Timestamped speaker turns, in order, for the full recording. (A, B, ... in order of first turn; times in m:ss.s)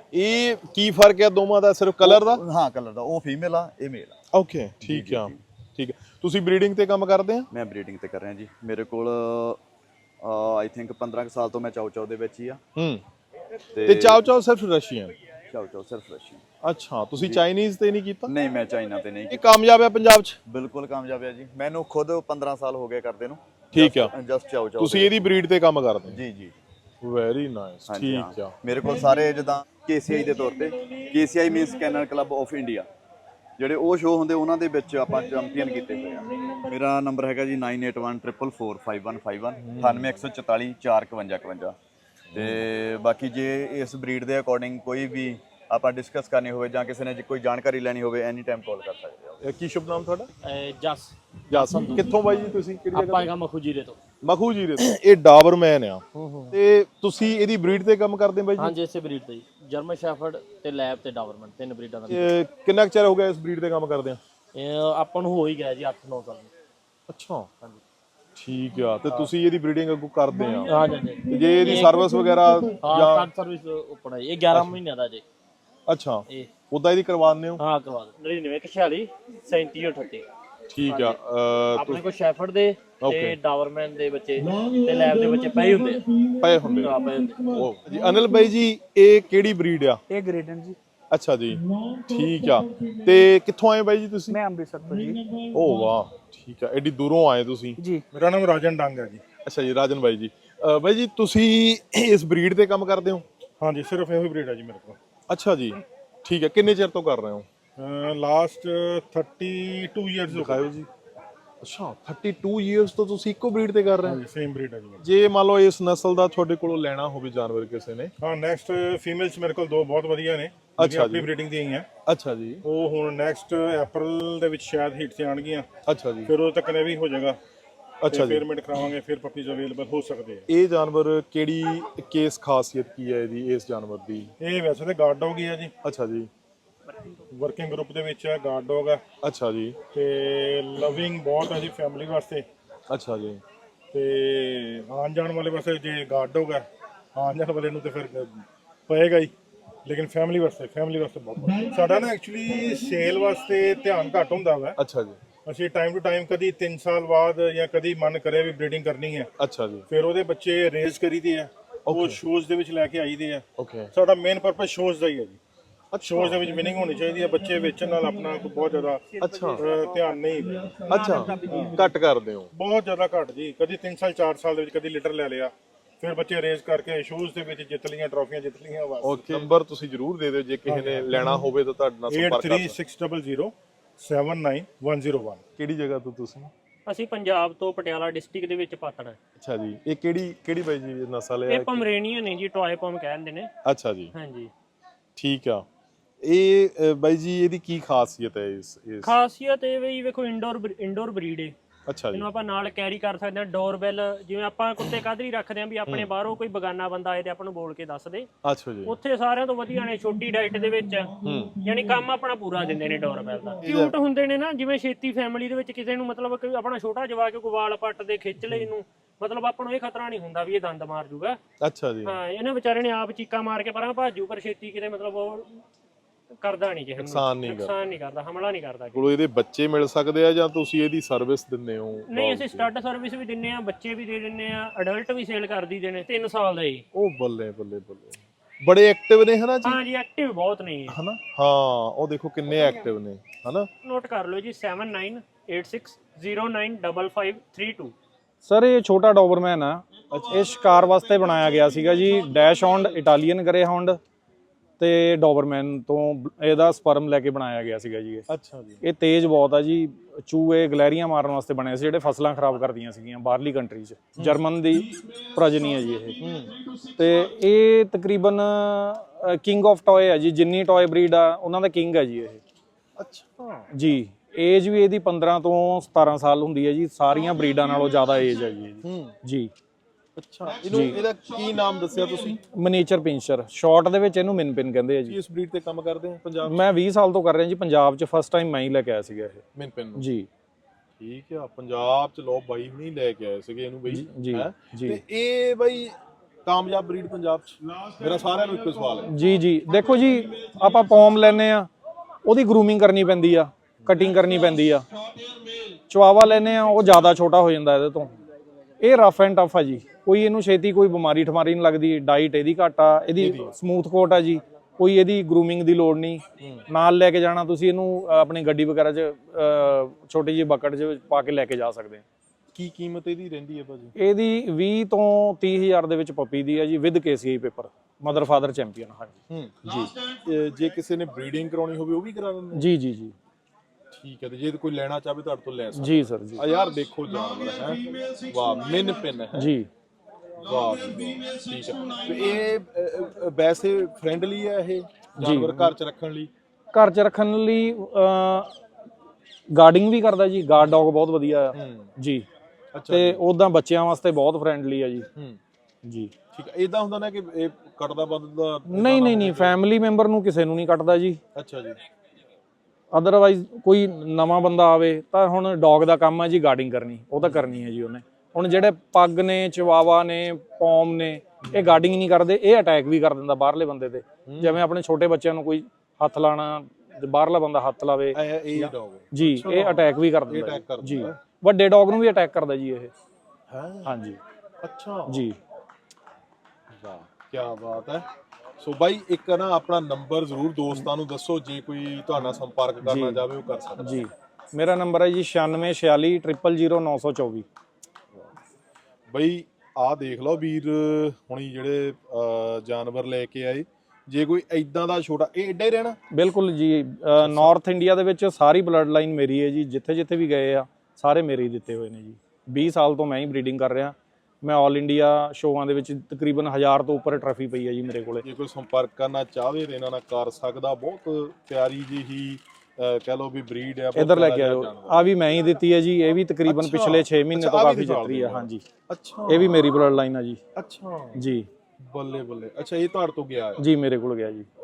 0:00.1-0:02.4 A
0:02.0-0:04.2 B
0:04.3-0:07.5 A
0:04.8-0:05.4 B
0:07.5-0:09.6 B
0:10.2-0:12.6 B
0:12.8-0:13.0 A
0:13.7-0:14.3 B
0:13.9-0:15.1 A
0:15.5-0:16.4 B
0:16.6-0:18.3 A
0:17.2-0:17.4 B
0:18.3-0:19.4 B
0:19.3-0:20.4 A
0:20.5-0:25.3 B
0:23.7-0:24.1 A
0:24.8-0:26.2 A
0:26.1-0:26.6 B
0:27.0-0:28.6 A
0:27.9-0:32.9 B
0:33.6-0:41.8 B
0:39.6-0:40.1 A
0:42.3-0:42.6 A
0:42.3-0:49.4 B
0:49.4-0:50.3 A
0:50.4-0:52.0 C
0:51.5-0:53.3 A
0:52.9-0:54.0 C
0:54.2-0:58.8 A
0:56.2-0:56.6 C
0:58.6-1:02.3 C
1:02.1-1:04.2 A
1:04.5-1:06.5 C
1:07.1-1:07.5 A
1:08.4-1:13.3 A
1:09.0-1:09.3 C
1:10.6-1:12.0 C
1:12.8-1:15.2 C
1:15.9-1:17.6 A
1:17.6-1:20.3 C
1:20.7-1:22.0 A
1:20.9-1:21.2 C
1:21.7-1:26.1 C
1:23.0-1:23.4 A
1:26.4-1:27.0 A
1:26.8-1:27.7 C
1:27.5-1:30.0 A
1:30.1-1:30.8 D
1:31.1-1:34.4 A
1:34.3-1:35.2 D
1:35.5-1:37.8 A
1:37.8-1:38.1 D
1:38.1-1:39.2 E
1:39.4-1:43.2 A
1:43.6-1:45.0 E
1:45.3-1:47.5 A
1:47.8-1:50.7 E
1:50.3-1:50.9 A
1:51.6-1:54.2 A
1:54.0-1:55.0 E
1:55.0-1:58.1 A
1:58.2-2:01.9 E
2:00.8-2:01.3 A
2:02.1-2:02.6 A
2:02.6-2:05.7 E
2:05.9-2:06.3 A
2:06.3-2:07.4 E
2:08.0-2:08.4 A
2:08.1-2:10.5 E
2:10.5-2:14.3 A
2:14.4-2:15.7 E
2:15.8-2:16.3 A
2:17.3-2:19.0 E
2:19.2-2:19.8 A
2:19.9-2:22.4 E
2:22.9-2:23.4 A
2:23.9-2:29.3 E
2:29.9-2:34.8 E
2:34.8-2:35.2 A
2:35.5-2:39.3 E
2:39.4-2:39.9 A
2:39.9-2:45.4 E
2:41.9-2:42.2 A
2:43.6-2:43.9 A
2:45.9-2:46.4 A
2:46.0-2:51.8 E
2:49.2-2:49.7 A
2:50.9-2:52.5 A
2:51.3-2:51.6 C
2:52.5-2:59.5 E
2:59.0-3:02.8 A
3:00.7-3:01.5 E
3:02.1-3:05.4 E
3:05.6-3:06.5 A
3:06.9-3:09.2 F
3:09.4-3:11.9 A
3:11.5-3:13.5 F
3:13.7-3:14.1 A
3:14.1-3:14.5 F
3:15.2-3:15.6 A
3:16.2-3:19.1 A
3:19.0-3:21.5 F
3:21.9-3:22.3 A
3:22.1-3:28.3 F
3:28.4-3:29.0 A
3:28.8-3:41.4 F
3:31.2-3:31.6 A
3:33.6-3:33.9 A
3:41.6-3:42.2 A
3:42.1-3:45.6 F
3:46.4-3:49.1 F
3:47.0-3:47.7 A
3:48.9-3:52.7 A
3:52.1-3:56.8 F
3:56.9-3:59.8 A
3:59.6-4:01.0 F
4:00.9-4:03.7 A
4:03.8-4:07.9 F
4:08.4-4:14.0 G
4:10.1-4:10.5 A
4:14.8-4:18.3 G
4:18.3-4:18.8 A
4:18.8-4:26.2 G
4:26.2-4:26.5 A
4:27.0-4:32.4 G
4:33.0-4:33.7 A
4:33.7-4:39.5 G
4:38.8-4:39.2 A
4:40.2-4:42.4 A
4:40.7-4:41.0 G
4:42.4-4:45.2 G
4:45.1-4:46.7 A
4:46.4-4:49.4 G
4:49.6-4:50.1 A
4:50.0-4:50.3 G
4:51.0-4:55.9 A
4:53.9-4:55.0 G
4:56.5-4:59.1 A
4:59.1-5:01.7 G
5:02.2-5:04.9 G
5:05.9-5:08.1 G
5:08.8-5:22.0 G
5:13.2-5:13.6 A
5:22.5-5:23.9 A
5:24.0-5:29.9 G
5:29.3-5:32.7 A
5:32.5-5:33.2 G
5:33.9-5:39.5 A
5:35.7-5:36.5 G
5:39.3-5:39.7 G
5:40.4-5:46.3 A
5:45.2-5:45.8 G
5:46.7-5:48.5 G
5:49.5-5:52.2 G
5:51.6-5:51.9 A
5:52.8-5:53.2 A
5:52.9-5:55.1 G
5:55.8-5:56.1 G
5:56.3-5:59.6 A
5:58.7-6:01.2 G
6:01.4-6:01.8 A
6:02.9-6:22.9 G
6:11.4-6:11.8 A
6:14.3-6:14.6 A
6:18.1-6:21.2 A
6:23.5-6:23.9 A
6:23.9-6:24.2 G
6:24.6-6:25.2 A
6:25.1-6:25.4 G
6:26.7-6:28.0 A
6:28.6-6:34.0 A
6:32.8-6:37.5 G
6:39.1-6:46.0 A
6:46.1-6:58.2 G
6:47.2-6:47.5 A
6:58.2-7:05.0 A
7:04.0-7:08.6 G
7:06.5-7:09.7 A
7:09.3-7:10.4 G
7:10.6-7:11.2 A
7:11.2-7:11.5 G
7:11.8-7:13.7 A
7:13.6-7:14.5 G